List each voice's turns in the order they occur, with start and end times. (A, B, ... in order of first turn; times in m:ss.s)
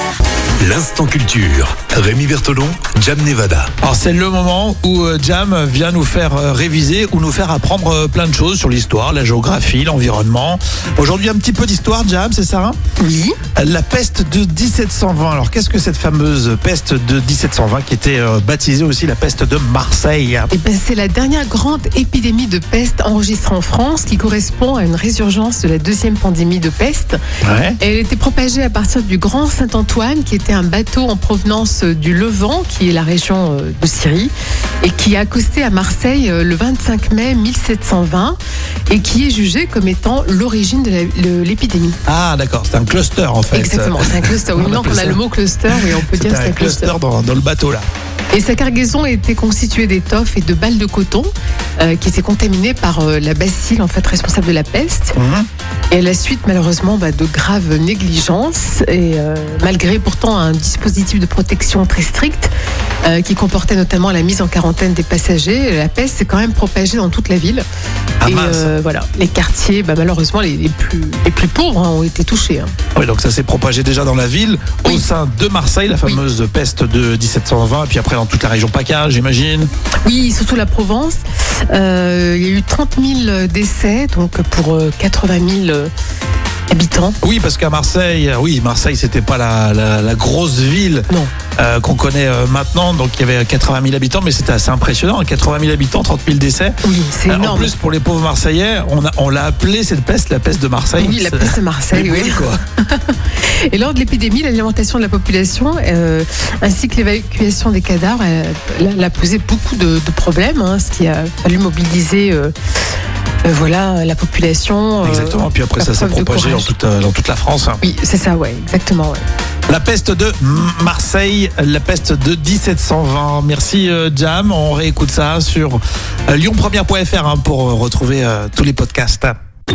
0:00.6-0:03.7 A
0:03.8-0:12.8 B
0:13.0-0:13.4 C
0:13.5-0:20.5 B
0:20.5-0:27.2 C
0:27.4-0:27.8 B
0:27.8-0:38.4 C
0:38.9-0:42.0 C
0:42.1-0:45.2 B
0:43.5-0:47.0 C
0:45.7-0:47.9 B
0:48.3-0:55.2 C
0:55.2-0:55.5 B
0:55.9-1:02.5 C
1:03.0-1:07.6 C
1:08.2-1:08.7 B
1:08.2-1:12.7 C
1:13.0-1:19.7 B
1:20.0-1:25.9 C
1:26.7-1:27.2 C
1:27.2-1:42.6 B
1:36.8-1:37.7 C
1:41.0-1:52.5 C
1:53.4-1:56.7 C
1:55.0-1:57.8 B
1:57.8-1:59.2 C
1:59.7-2:09.4 B